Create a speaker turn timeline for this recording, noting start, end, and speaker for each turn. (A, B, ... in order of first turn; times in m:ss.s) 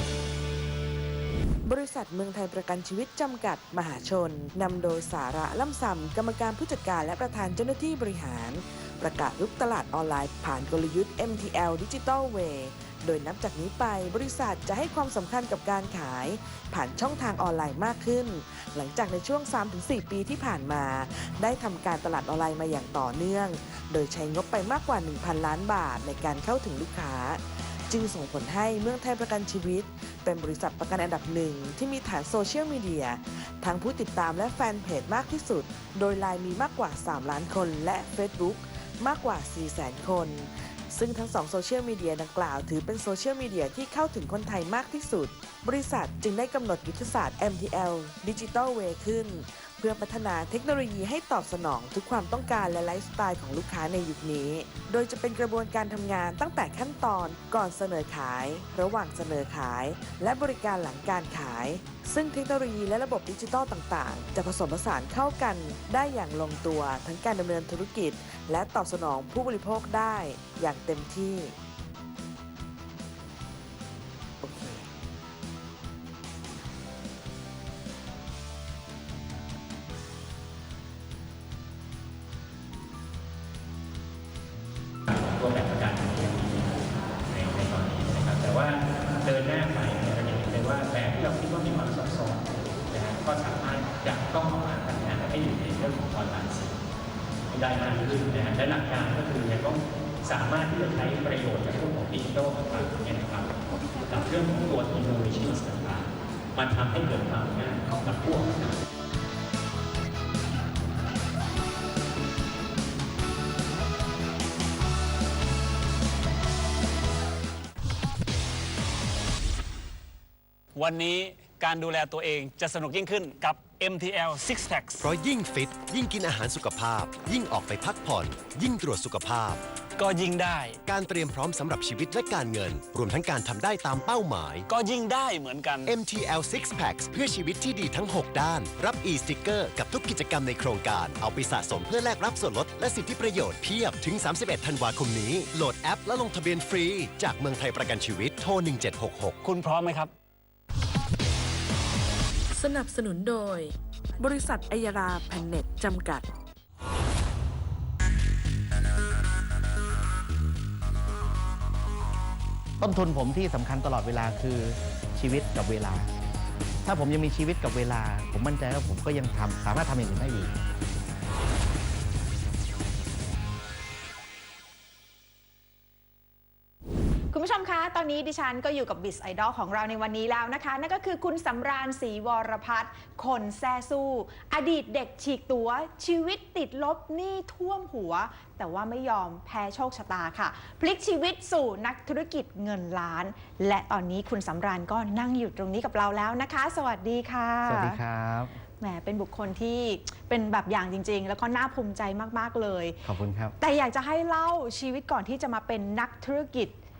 0:01.6-1:11.5 A
1:14.4-1:14.9 A
1:25.1-1:36.8 B
1:37.5-1:48.8 B
2:00.7-2:05.0 C
2:05.0-2:09.6 D
2:10.0-2:10.8 C
2:10.8-2:14.7 D
2:14.7-2:15.9 C
2:15.8-2:29.4 D
2:29.4-2:30.1 C
2:32.5-2:36.2 A
2:42.8-2:46.1 E
2:46.8-2:50.5 E
2:57.3-3:18.0 F
3:17.6-3:18.6 E
3:18.8-3:23.0 F
3:23.0-3:23.5 E
3:23.6-3:26.8 F